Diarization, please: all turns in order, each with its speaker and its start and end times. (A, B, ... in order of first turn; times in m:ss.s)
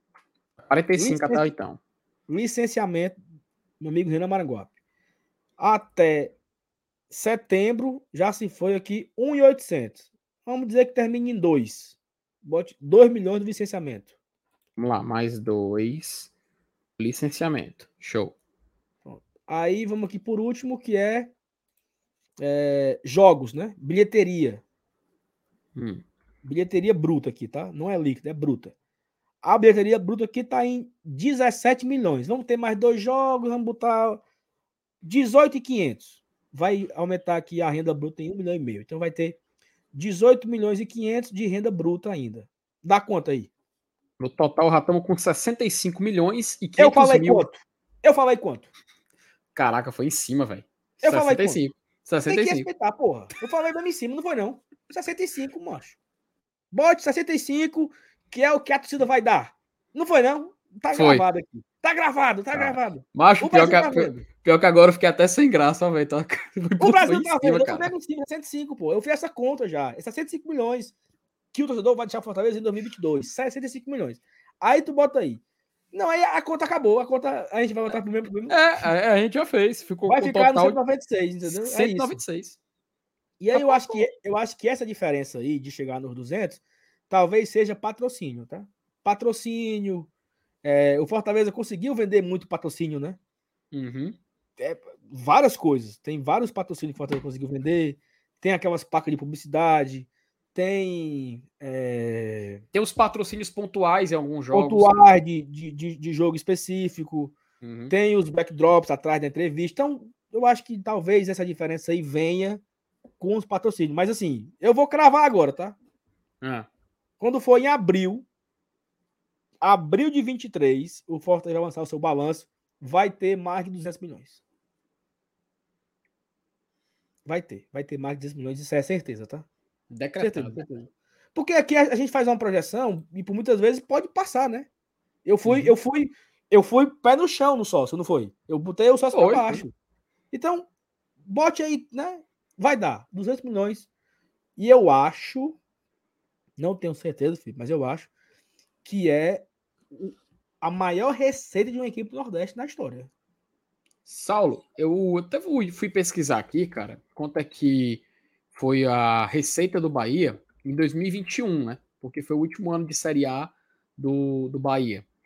0:00.7-0:01.8 A
0:01.0-0:01.5 B
0:02.3-0:03.2 B
0:03.8-0:04.7 B
0:05.6-0:06.4 B
0:07.1-0:14.1 B
0:14.8-0:16.3 A
0:17.0-0:18.4 A
0:19.1-0:21.3 B
0:22.4-0:24.6 B
0:25.8-0:26.0 A
0:26.4-0:28.7 B
0:29.4-0:34.2 B
0:35.0-0:39.4 B
0:39.9-0:43.5 B
0:44.2-0:47.5 A
0:46.8-0:48.7 B
0:49.6-0:52.7 A
0:51.0-0:51.6 B
0:52.3-0:56.0 B
0:56.7-1:04.3 B
1:00.9-1:01.2 A
1:02.5-1:07.9 A
1:06.8-1:11.0 B
1:11.5-1:15.4 B
1:15.9-1:18.9 B
1:18.5-1:20.8 A
1:20.1-1:22.2 B
1:21.5-1:22.6 A
1:23.4-1:30.1 B
1:23.5-1:24.0 A
1:30.6-1:33.2 B
1:33.7-1:34.2 A
1:34.6-1:42.6 B
1:42.7-1:45.0 A
1:44.5-1:47.4 B
1:47.6-1:47.9 A
1:47.9-1:52.6 B
1:53.2-1:55.8 B
1:56.4-1:56.7 A
1:57.2-1:58.3 B
1:59.6-2:04.4 B
2:07.3-2:09.5 B
2:09.9-2:10.6 A
2:10.2-2:14.7 B
2:15.2-2:19.7 B
2:15.4-2:15.7 A
2:19.1-2:19.6 A
2:20.3-2:20.7 B
2:21.2-2:23.9 B
2:24.6-2:25.6 B
2:26.6-2:28.1 B
2:28.8-2:33.1 B
2:34.1-2:45.0 A